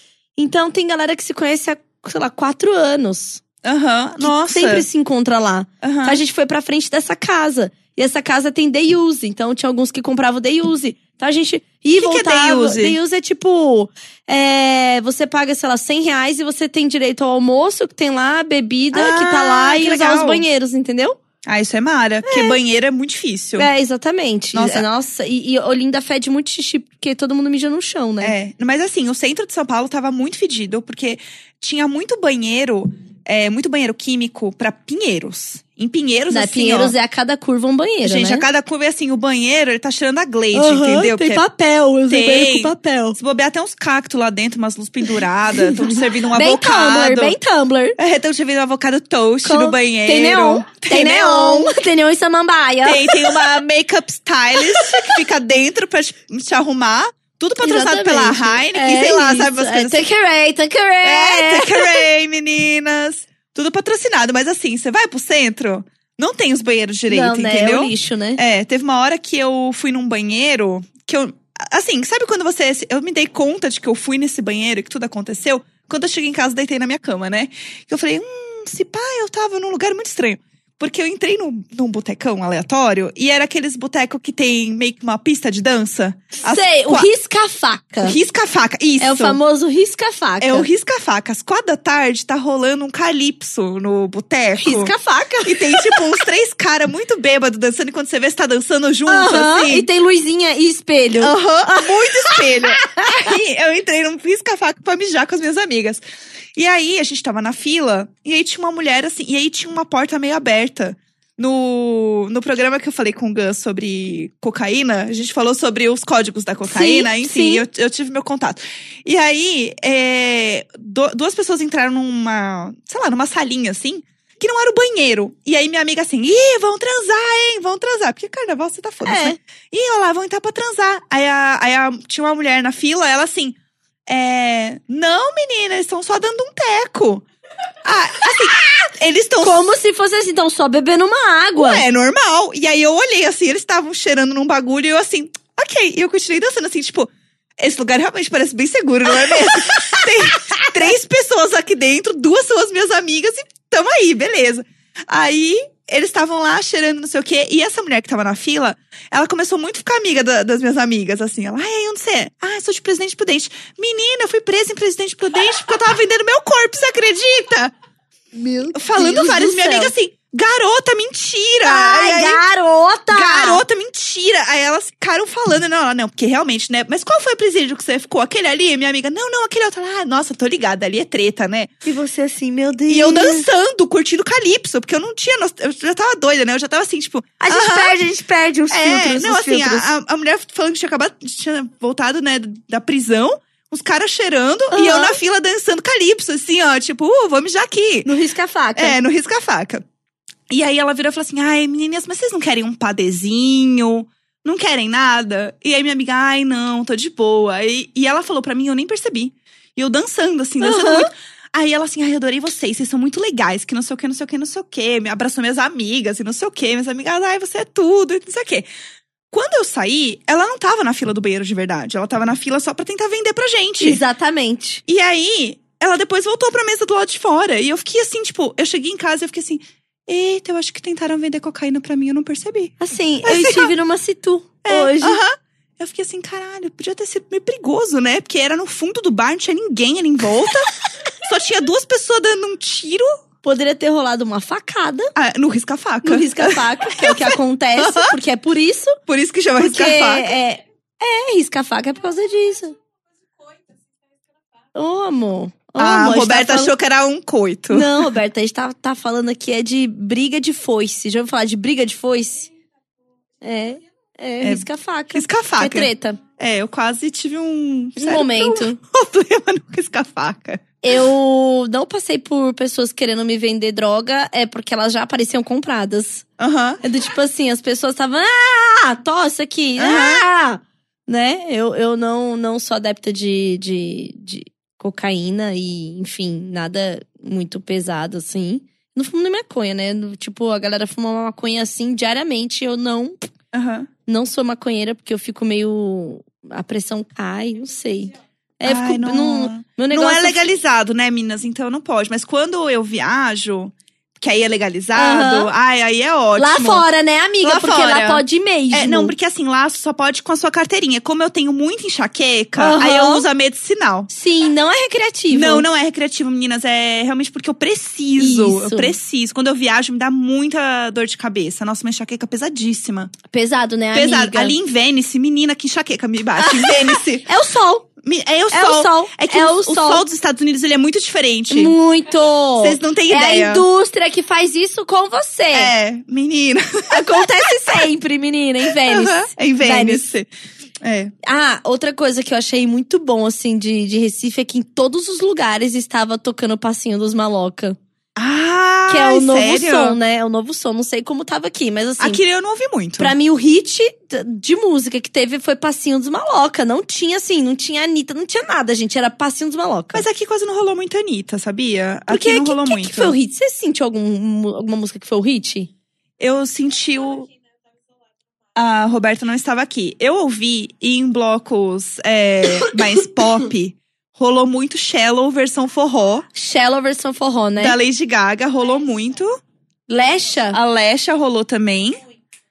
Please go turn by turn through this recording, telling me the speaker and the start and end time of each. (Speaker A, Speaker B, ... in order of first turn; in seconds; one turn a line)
Speaker A: 0.4-3.4
Speaker B: 3.6-4.9
Speaker A: 4.2-21.2
Speaker B: 5.8-6.2
Speaker B: 12.0-13.0
Speaker B: 18.9-20.4
Speaker B: 21.4-23.7
Speaker A: 22.2-22.6
Speaker A: 23.6-28.3
Speaker B: 24.5-24.9
Speaker B: 28.2-37.0
Speaker A: 36.3-38.5
Speaker B: 38.0-41.4
Speaker A: 40.5-43.2
Speaker B: 42.1-47.4
Speaker A: 45.5-48.0
Speaker B: 48.0-51.8
Speaker A: 49.4-53.5
Speaker B: 52.8-60.0
Speaker A: 54.7-55.1
Speaker A: 57.6-62.0
Speaker B: 61.0-87.1
Speaker A: 67.1-68.4
Speaker A: 86.4-88.2
Speaker B: 88.0-89.4
Speaker A: 89.0-90.7
Speaker B: 90.4-94.9
Speaker A: 94.6-96.1
Speaker B: 95.5-99.9
Speaker A: 99.1-103.3
Speaker B: 101.2-106.0
Speaker B: 106.5-137.2
Speaker A: 116.7-117.7
Speaker A: 129.0-129.4
Speaker B: 137.8-139.6
Speaker A: 139.4-141.8
Speaker B: 141.6-167.7
Speaker A: 149.3-150.7
Speaker A: 168.3-169.9
Speaker B: 168.8-172.4
Speaker A: 171.6-173.6
Speaker B: 173.1-181.7
Speaker A: 181.8-183.5
Speaker B: 182.9-188.0
Speaker A: 187.4-189.8
Speaker B: 188.7-198.1
Speaker A: 194.7-195.2
Speaker A: 198.0-199.0
Speaker B: 198.8-199.8
Speaker B: 200.5-218.7
Speaker A: 210.6-211.1
Speaker B: 219.3-224.0
Speaker A: 223.8-224.8
Speaker B: 224.9-233.7
Speaker A: 232.8-235.2
Speaker B: 234.7-243.1
Speaker A: 243.4-245.1
Speaker B: 245.2-248.2
Speaker A: 246.0-249.0
Speaker B: 249.1-250.3
Speaker A: 249.6-252.8
Speaker A: 254.8-256.7
Speaker B: 255.8-258.1
Speaker A: 257.7-262.5
Speaker A: 263.4-266.2
Speaker B: 264.4-270.6
Speaker A: 268.0-268.8
Speaker A: 270.8-276.2
Speaker B: 276.4-276.8
Speaker A: 276.8-293.2
Speaker B: 279.8-280.2
Speaker B: 293.5-293.9
Speaker A: 294.1-300.4
Speaker B: 298.6-306.9
Speaker A: 304.9-305.5
Speaker A: 306.4-309.1
Speaker B: 307.4-314.1
Speaker A: 312.6-313.2
Speaker A: 314.1-315.7
Speaker B: 315.3-323.2
Speaker A: 318.2-318.9
Speaker A: 323.3-324.5
Speaker B: 323.9-327.3
Speaker A: 326.4-327.9
Speaker B: 328.0-331.8
Speaker A: 328.5-330.0
Speaker A: 331.5-335.7
Speaker B: 332.6-333.6
Speaker B: 335.5-337.9
Speaker A: 336.9-340.0
Speaker B: 338.7-340.3
Speaker B: 340.8-341.1
Speaker A: 341.2-347.8
Speaker B: 348.2-350.0
Speaker A: 348.9-352.2
Speaker B: 352.0-353.1
Speaker A: 353.0-360.0
Speaker B: 359.9-363.2
Speaker A: 362.1-365.7
Speaker B: 366.2-367.3
Speaker B: 368.5-376.3
Speaker A: 372.6-373.2
Speaker A: 376.4-377.8
Speaker B: 377.6-379.4
Speaker A: 379.9-380.6
Speaker B: 380.5-382.0